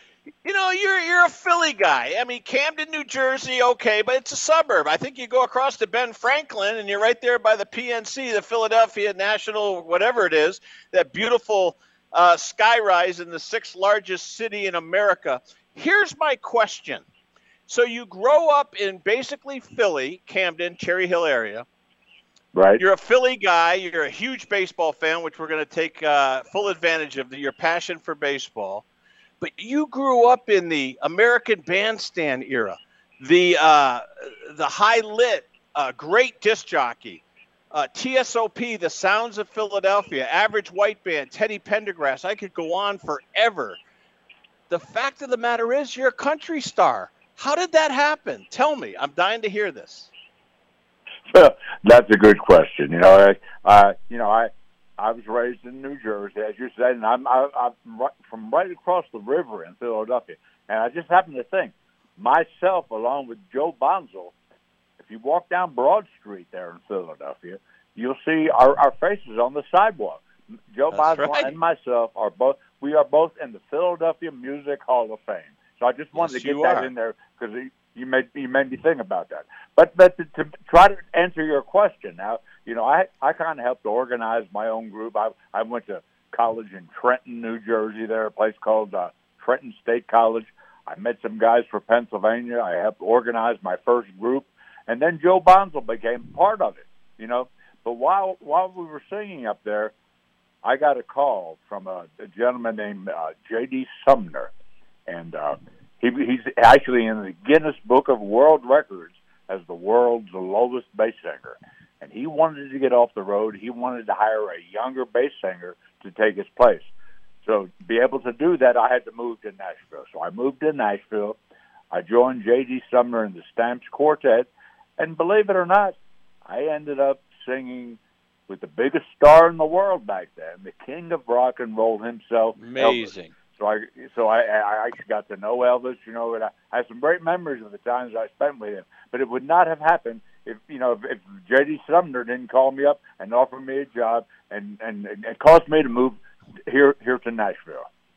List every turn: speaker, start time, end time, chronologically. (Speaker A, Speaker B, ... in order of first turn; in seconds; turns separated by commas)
Speaker A: 0.4-17.0, Speaker A: 17.7-21.6, Speaker B: 22.5-22.8, Speaker A: 22.8-28.8, Speaker A: 29.4-43.8, Speaker A: 44.7-50.1, Speaker B: 51.3-64.3, Speaker B: 65.0-99.9, Speaker A: 70.9-71.5, Speaker A: 76.2-76.9, Speaker B: 100.6-104.5, Speaker B: 105.1-116.9, Speaker B: 117.4-121.4, Speaker B: 121.9-147.9, Speaker A: 132.6-133.3